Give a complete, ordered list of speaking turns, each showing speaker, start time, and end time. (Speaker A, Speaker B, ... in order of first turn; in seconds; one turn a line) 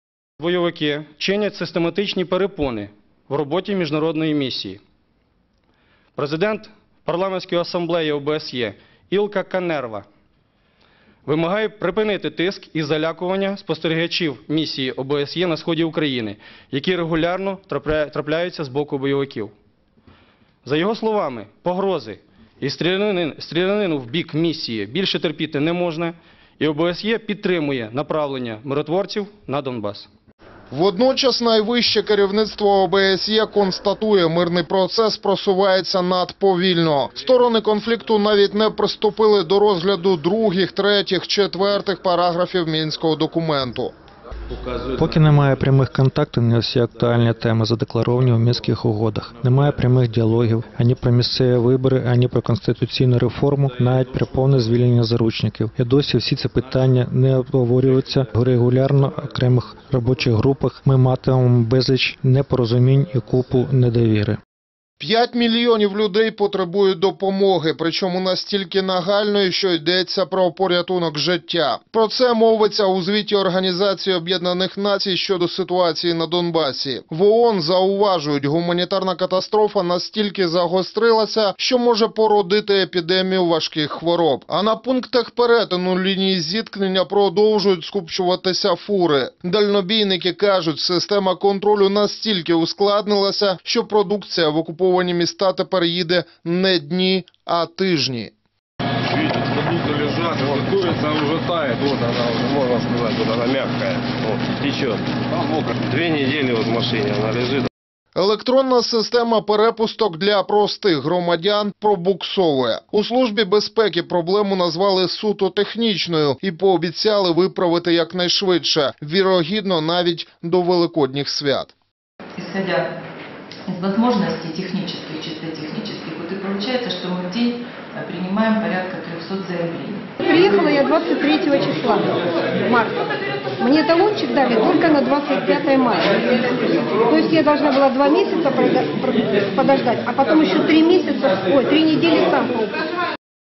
Speaker A: 0.4-4.8
Speaker A: 6.2-10.0
Speaker A: 11.2-19.5
Speaker A: 20.6-30.1
Speaker B: 30.7-43.9
Speaker C: 44.8-64.4
Speaker B: 65.0-98.3
Speaker D: 99.1-107.7
Speaker B: 108.2-121.7
Speaker E: 122.3-122.9
Speaker E: 123.7-130.1
Speaker F: 130.2-133.1
Speaker F: 133.6-142.7